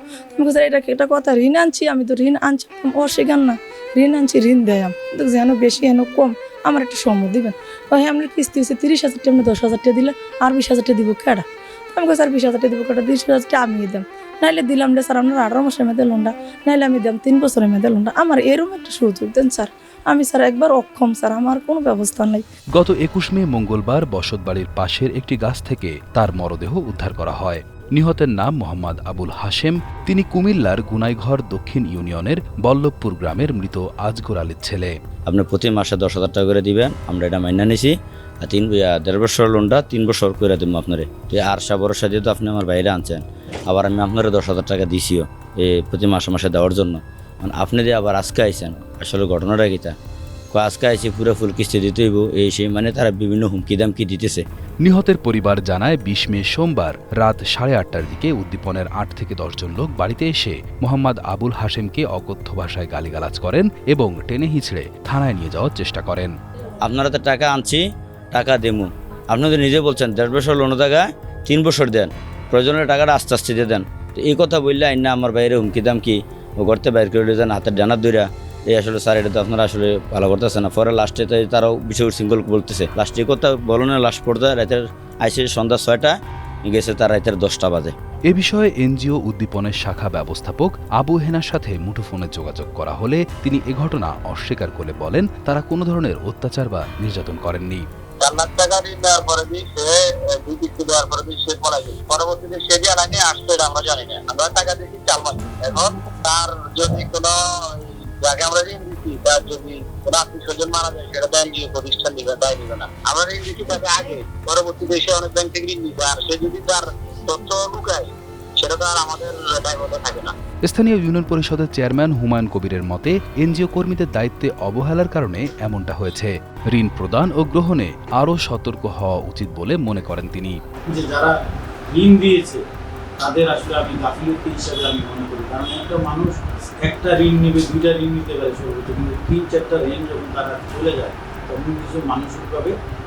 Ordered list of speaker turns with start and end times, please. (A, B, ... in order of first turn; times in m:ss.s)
0:00.3-0:22.4 A
0:22.8-0:35.0 B
0:35.3-0:49.9 C
0:50.5-0:54.4 C
0:54.8-1:06.3 B
1:06.8-1:07.8 C
1:08.3-1:26.1 C
1:26.6-1:27.9 C
1:28.3-1:37.8 B
1:38.2-2:00.3 D
2:00.6-2:10.6 B
2:10.9-2:11.2 C
2:12.0-2:12.6 E
2:13.2-2:22.7 E
2:13.6-2:14.2 C